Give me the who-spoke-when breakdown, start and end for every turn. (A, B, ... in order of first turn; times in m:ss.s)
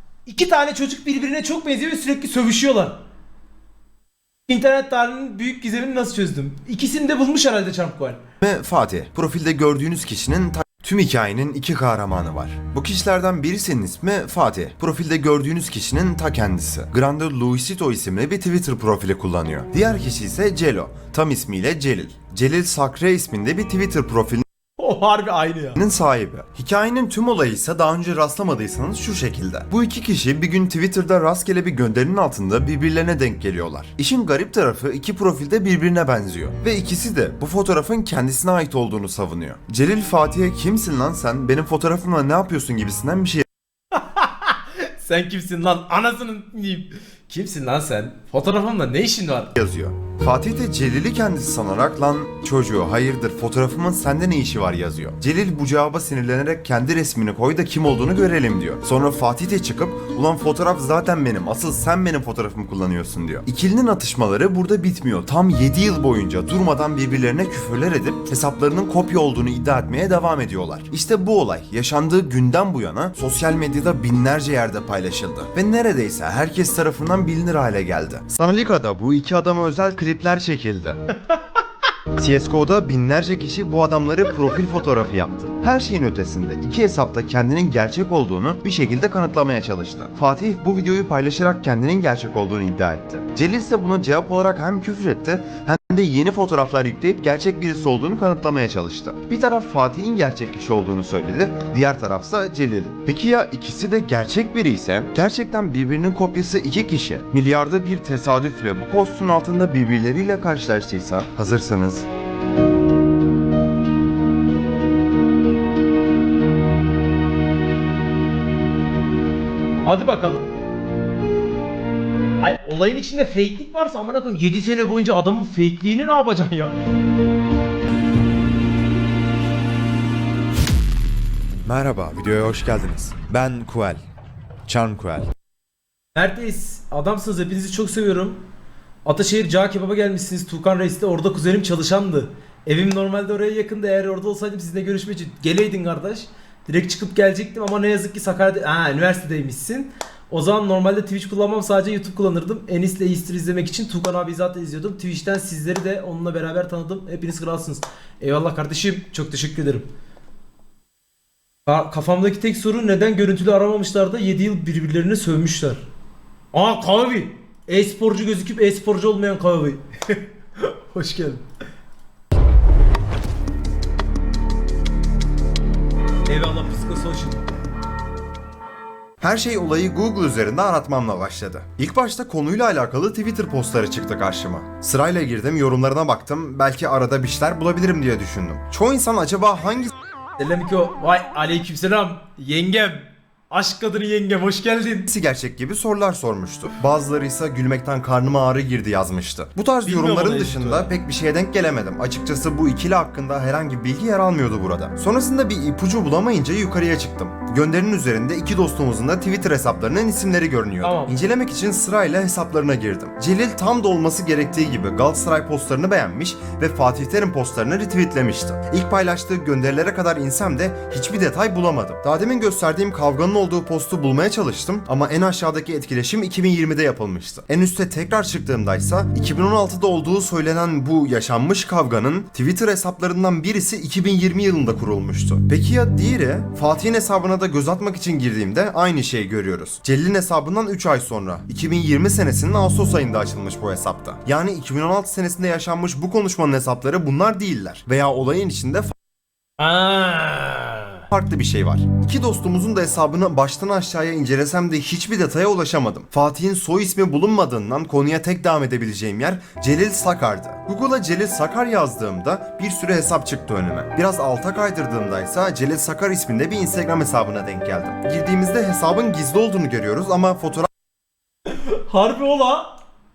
0:00.3-0:03.0 A
0:04.5-0:08.2 A
0:08.4-0:24.4 B
0:24.8-0:25.8 A
0:25.8-0:43.5 B
0:44.0-0:49.5 A
0:49.6-1:21.0 B
1:22.2-1:52.1 B
1:59.8-2:00.5 A
2:02.4-2:06.8 A
2:11.7-2:14.0 B
2:14.7-2:15.3 B
2:16.2-2:18.4 A
2:19.0-2:39.9 A
2:41.7-2:45.8 A
2:46.5-2:51.4 A
2:56.3-2:57.5 A
2:59.2-3:09.9 B
3:10.4-3:15.1 A
3:15.1-4:08.9 B
3:19.8-3:20.9 A
3:30.8-3:31.2 A
4:09.6-4:11.0 A
4:11.1-4:30.7 B
4:31.5-4:32.8 A